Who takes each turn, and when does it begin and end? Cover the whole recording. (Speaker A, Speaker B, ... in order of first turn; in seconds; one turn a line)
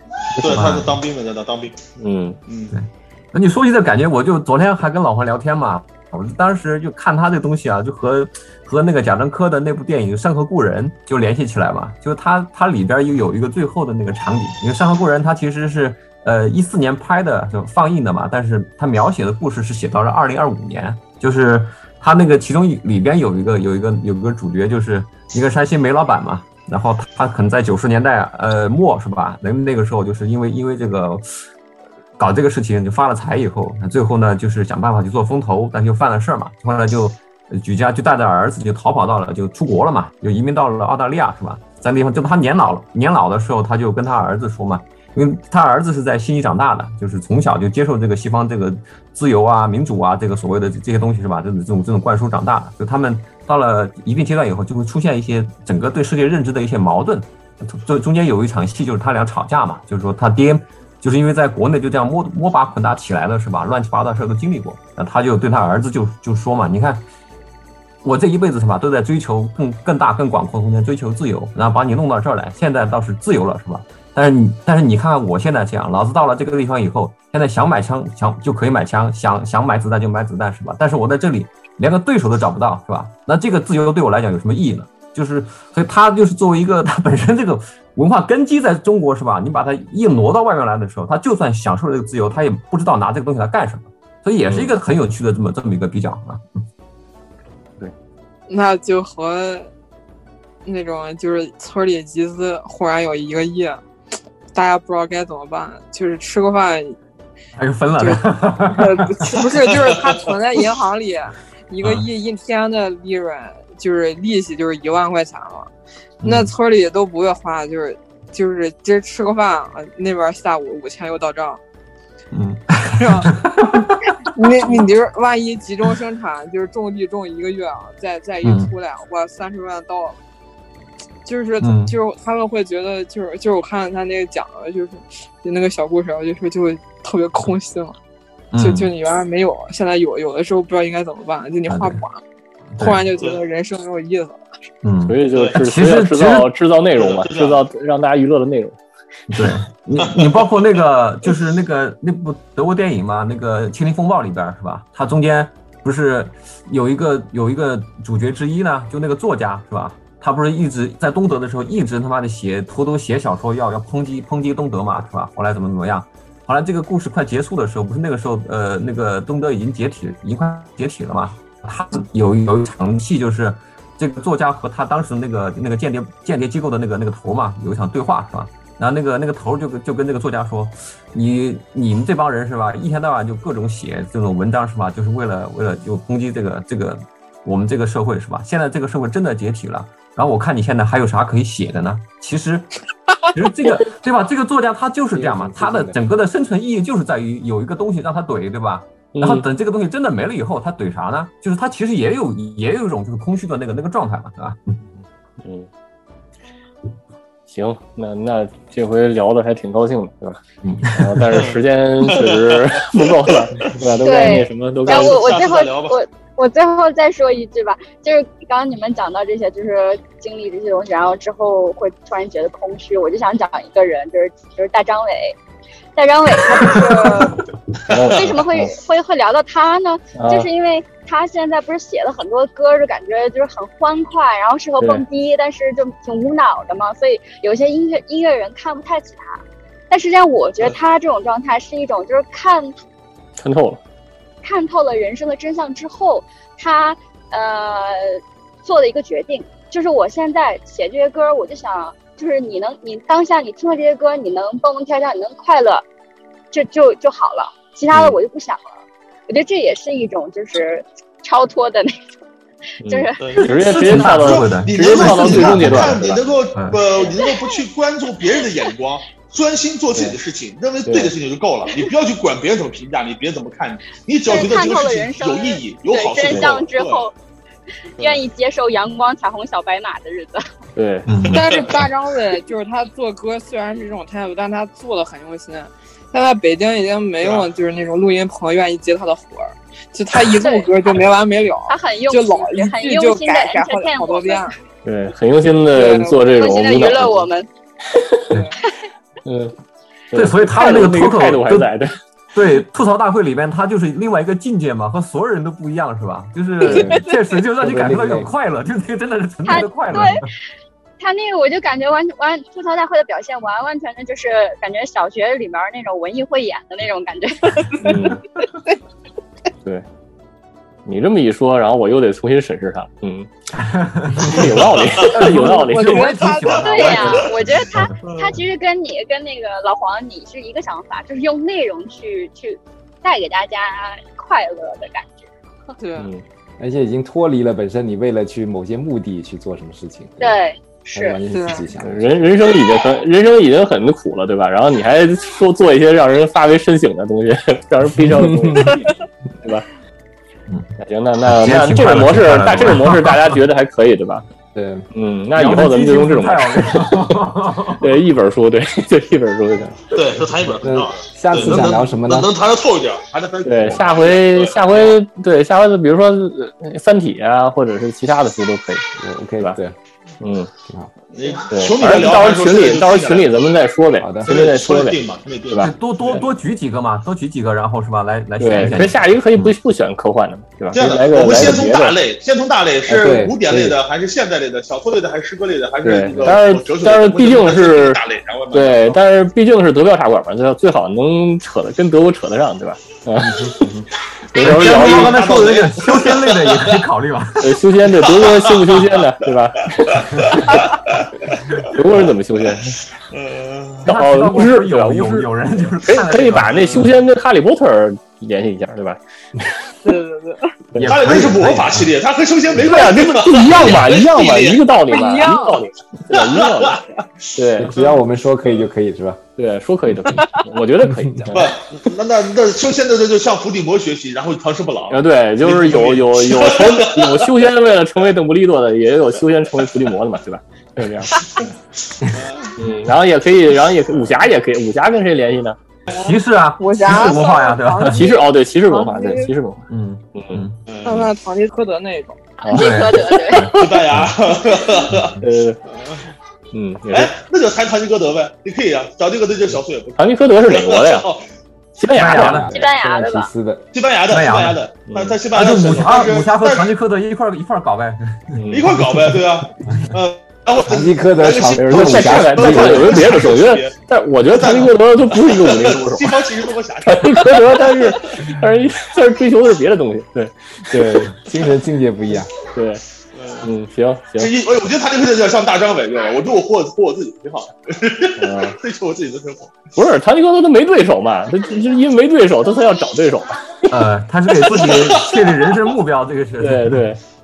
Speaker A: 0.4-1.8
Speaker B: 0.4-0.9
Speaker C: 2.0-2.4
Speaker A: 2.5-2.8
Speaker B: 2.7-31.4
Speaker B: 32.2-67.0
Speaker B: 68.0-96.6
Speaker C: 94.4-94.7
Speaker D: 98.5-99.7
Speaker D: 100.6-103.8
Speaker D: 104.5-107.0
Speaker B: 107.6-109.5
Speaker D: 108.0-115.7
Speaker A: 109.8-110.2
Speaker B: 116.2-116.5
Speaker D: 116.2-121.6
Speaker B: 122.3-124.8
Speaker D: 123.0-123.8
Speaker D: 124.3-130.2
Speaker B: 128.4-128.7
Speaker D: 131.2-137.9
Speaker B: 131.6-131.9
Speaker B: 138.5-138.9
Speaker D: 138.6-142.2
Speaker B: 141.7-142.0
Speaker B: 142.7-143.1
Speaker D: 142.8-144.4
Speaker B: 144.8-146.5
Speaker C: 145.1-148.8
Speaker A: 145.3-145.6
Speaker A: 146.9-147.6
Speaker B: 149.3-192.8
Speaker A: 150.0-150.5
Speaker B: 193.3-204.6
Speaker E: 195.1-196.0
Speaker C: 199.1-199.4
Speaker C: 205.4-205.7
Speaker C: 207.5-210.4
Speaker C: 210.9-215.2
Speaker A: 211.3-213.7
Speaker F: 214.0-225.4
Speaker A: 214.8-216.0
Speaker F: 225.9-227.4
Speaker C: 227.9-228.7
Speaker F: 228.1-242.8
Speaker C: 230.1-230.5
Speaker C: 234.8-235.0
Speaker C: 243.4-243.8
Speaker F: 244.4-255.8
Speaker F: 256.5-262.1
Speaker C: 262.8-266.2
Speaker F: 262.9-263.4
Speaker A: 263.2-277.1
Speaker B: 263.5-266.0
Speaker B: 266.5-266.8
Speaker F: 266.9-267.6
Speaker C: 270.9-271.1
Speaker F: 274.2-277.1
Speaker C: 276.2-276.5
Speaker F: 278.0-280.4
Speaker C: 280.8-281.1
Speaker B: 281.1-281.5
Speaker A: 281.2-281.8
Speaker D: 281.3-294.6
Speaker F: 290.3-290.7
Speaker F: 291.7-294.5
Speaker C: 294.8-297.3
Speaker D: 295.7-296.3
Speaker F: 296.3-297.5
Speaker C: 297.9-298.3
Speaker F: 298.6-298.9
Speaker C: 299.2-299.6
Speaker C: 300.1-301.9
Speaker B: 300.1-301.7
Speaker B: 302.3-310.3
Speaker D: 306.6-307.1
Speaker E: 306.6-307.1
Speaker E: 307.6-308.3
Speaker F: 309.4-310.3
Speaker F: 311.0-317.7
Speaker D: 317.6-318.7
Speaker C: 317.8-318.2
Speaker C: 320.8-323.3
Speaker B: 323.6-324.4
Speaker C: 324.2-326.2
Speaker A: 324.2-325.3
Speaker D: 325.1-327.1
Speaker B: 325.2-327.9
Speaker A: 326.5-327.4
Speaker F: 326.5-335.3
Speaker C: 326.9-327.2
Speaker A: 328.0-328.4
Speaker D: 335.8-336.1
Speaker C: 335.9-336.2
Speaker E: 336.6-340.4
Speaker F: 340.2-341.2
Speaker E: 340.9-342.1
Speaker D: 341.3-341.6
Speaker C: 341.8-349.7
Speaker E: 348.2-348.6
Speaker C: 350.8-354.2
Speaker B: 351.2-353.4
Speaker E: 354.5-354.9
Speaker C: 354.9-357.0
Speaker B: 355.3-357.9
Speaker C: 357.8-359.8
Speaker A: 359.9-365.0
Speaker E: 360.6-362.3
Speaker C: 363.4-368.8
Speaker E: 369.0-369.8
Speaker C: 370.2-370.5
Speaker A: 371.1-373.5
Speaker C: 371.5-376.2
Speaker E: 374.0-374.3
Speaker A: 374.2-375.7
Speaker B: 375.6-379.6
Speaker C: 378.4-382.0
Speaker A: 380.7-389.0
Speaker E: 382.9-383.8
Speaker C: 385.8-388.0
Speaker E: 385.8-386.4
Speaker C: 388.5-395.2
Speaker A: 394.3-396.8
Speaker B: 394.4-397.6
Speaker C: 397.4-400.0
Speaker A: 398.0-398.9
Speaker A: 399.8-402.5
Speaker C: 401.7-402.8
Speaker A: 403.1-403.9
Speaker C: 403.9-405.3
Speaker B: 403.9-406.9
Speaker C: 405.9-409.0
Speaker D: 409.8-410.6
Speaker B: 410.7-411.9
Speaker A: 410.8-414.6
Speaker C: 412.6-416.8
Speaker D: 414.9-415.6
Speaker A: 416.1-418.7
Speaker C: 417.4-417.7
Speaker E: 417.6-419.2
Speaker C: 419.4-421.5
Speaker D: 420.1-420.4
Speaker E: 420.9-421.4
Speaker A: 421.3-427.5
Speaker C: 424.9-431.2
Speaker A: 431.1-432.5
Speaker C: 432.6-435.6
Speaker B: 435.9-438.1
Speaker D: 435.9-439.3
Speaker C: 437.9-440.4
Speaker B: 439.7-440.6
Speaker A: 440.6-441.1
Speaker D: 440.8-442.4
Speaker C: 442.4-443.6
Speaker F: 442.4-443.5
Speaker B: 442.5-444.1
Speaker A: 443.6-445.1
Speaker C: 445.2-445.6
Speaker A: 445.7-446.0
Speaker C: 446.5-447.1
Speaker A: 446.9-451.3
Speaker C: 450.0-451.1
Speaker C: 451.8-452.5
Speaker B: 451.9-452.5
Speaker E: 452.1-453.6
Speaker F: 452.5-453.3
Speaker A: 453.7-456.7
Speaker B: 454.1-454.6
Speaker C: 454.9-455.2
Speaker B: 455.3-458.4
Speaker C: 458.4-458.7
Speaker A: 458.5-463.7
Speaker E: 460.6-463.0
Speaker C: 461.6-466.2
Speaker A: 464.3-468.3
Speaker C: 466.8-471.1
Speaker E: 470.7-472.3
Speaker C: 472.5-472.8
Speaker A: 473.1-473.5
Speaker C: 473.4-474.3
Speaker A: 474.2-479.6
Speaker C: 478.2-478.6
Speaker C: 479.8-483.7
Speaker B: 483.7-486.8
Speaker A: 484.4-485.4
Speaker C: 486.4-487.0